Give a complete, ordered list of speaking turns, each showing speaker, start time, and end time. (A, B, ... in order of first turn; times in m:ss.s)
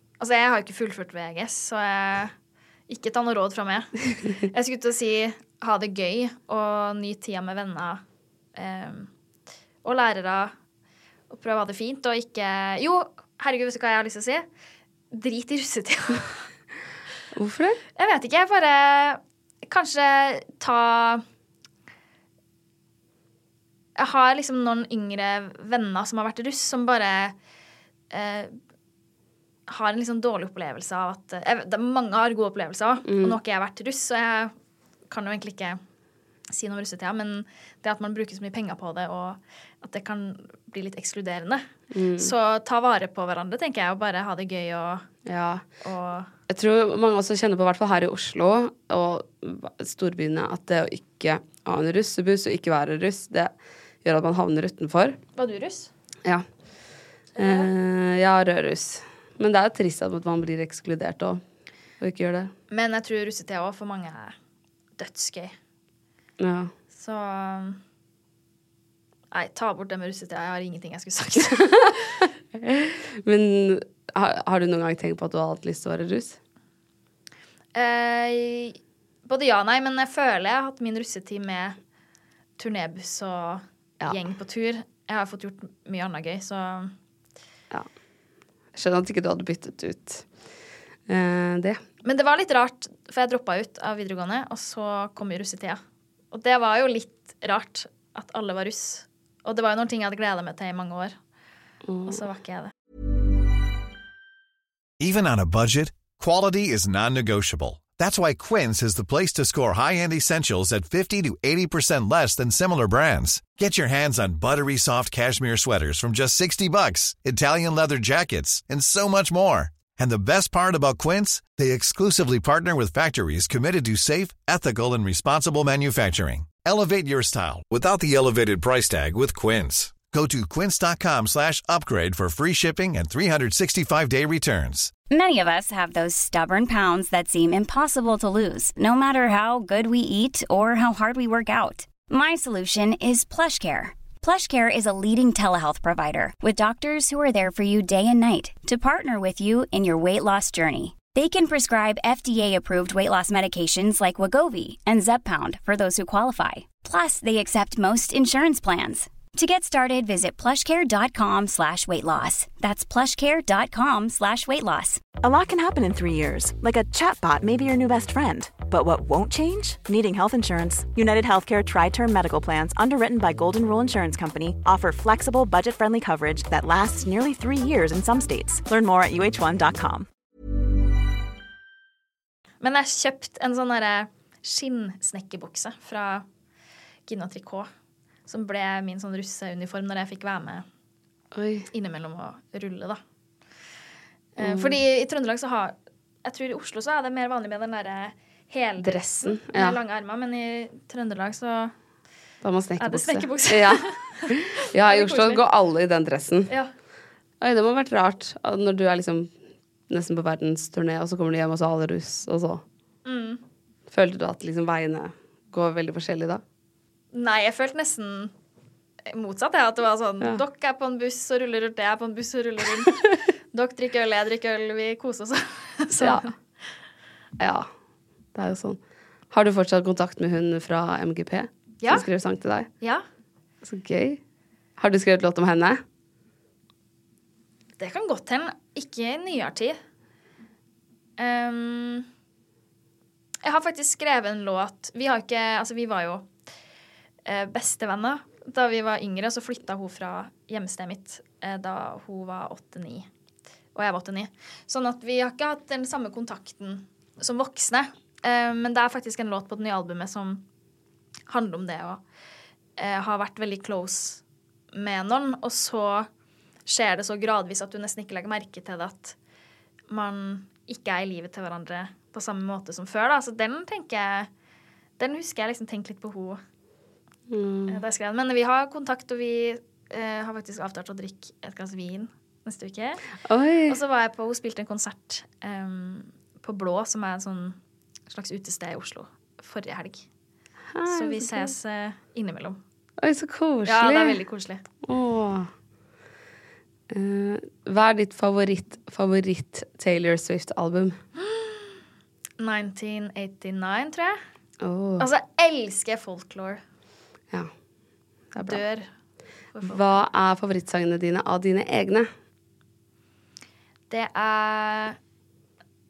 0:00.2-0:02.3 A
0:02.9-0:08.0 A
0:08.5-0:09.1 A
0:09.8-0:10.5 A
0:11.3-0:14.4 A
0:15.1-0:16.4 A
0:17.3-0:17.8 B
0:18.0-0:21.2 A
0:24.0-0:27.3 A
0:28.1-0:28.5 A
0:29.7-0:34.5 A
0:33.0-0:33.4 B
0:35.1-0:35.8 A
0:36.5-0:41.6 A
0:41.9-0:42.3 B
0:42.2-0:45.1 A
0:45.2-0:45.6 B
0:45.8-0:46.3 A
0:46.5-0:53.5 B
0:54.0-0:55.2 B
0:55.4-0:55.9 A
0:57.4-0:57.7 A
0:57.4-1:01.4 B
1:02.0-1:02.5 B
1:02.7-1:04.3 A
1:05.0-1:05.5 A
1:06.4-1:06.7 B
1:06.9-1:07.8 A
1:09.3-1:12.1 A
1:12.6-1:16.4 B
1:17.7-1:21.8 A
1:22.6-1:26.9 A
1:28.7-1:30.2 B
1:31.1-1:31.8 B
1:32.0-1:35.8 A
1:36.3-1:41.2 A
1:41.8-1:42.2 B
1:42.1-1:42.7 A
1:45.0-2:14.9 C
2:15.1-2:45.0 D
2:45.2-3:00.1 E
3:02.6-3:06.2 A
3:07.1-3:07.7 A
3:08.3-3:10.6 A
3:11.3-3:11.7 B
3:11.7-3:13.0 A
3:14.4-3:21.7 A
3:14.4-3:14.8 B
3:18.8-3:19.8 B
3:22.4-3:26.5 B
3:22.8-3:25.4 A
3:27.4-3:29.3 B
3:29.9-3:32.6 B
3:33.0-3:33.4 A
3:33.9-3:36.4 B
3:37.1-3:38.3 A
3:39.1-3:46.3 A
3:46.0-3:46.2 B
3:47.4-3:47.7 B
3:48.3-3:48.8 B
3:49.3-3:52.7 B
3:51.8-3:52.0 A
3:53.6-3:54.2 B
3:54.8-3:55.8 B
3:57.8-3:59.8 A
4:01.2-4:02.1 A
4:03.4-4:06.3 A
4:07.2-4:13.1 A
4:13.7-4:20.4 A
4:21.3-4:22.0 A
4:22.8-4:24.2 A
4:24.7-4:26.1 A
4:26.6-4:29.2 A
4:29.9-4:34.3 A
4:35.0-4:36.4 A
4:37.3-4:37.8 B
4:37.7-4:43.0 A
4:43.3-4:43.8 B
4:43.7-4:47.6 A
4:48.1-4:50.0 A
4:50.7-4:51.5 B
4:50.9-4:52.6 A
4:53.0-4:54.2 B
4:53.6-4:54.6 A
4:54.8-4:55.5 B
4:56.9-5:01.0 B
5:01.2-5:01.8 A
5:02.4-5:04.2 A
5:04.6-5:05.1 B
5:05.0-5:06.6 A
5:08.3-5:08.6 B
5:08.4-5:08.9 A
5:09.5-5:10.0 A
5:09.6-5:12.1 B
5:13.9-5:15.0 A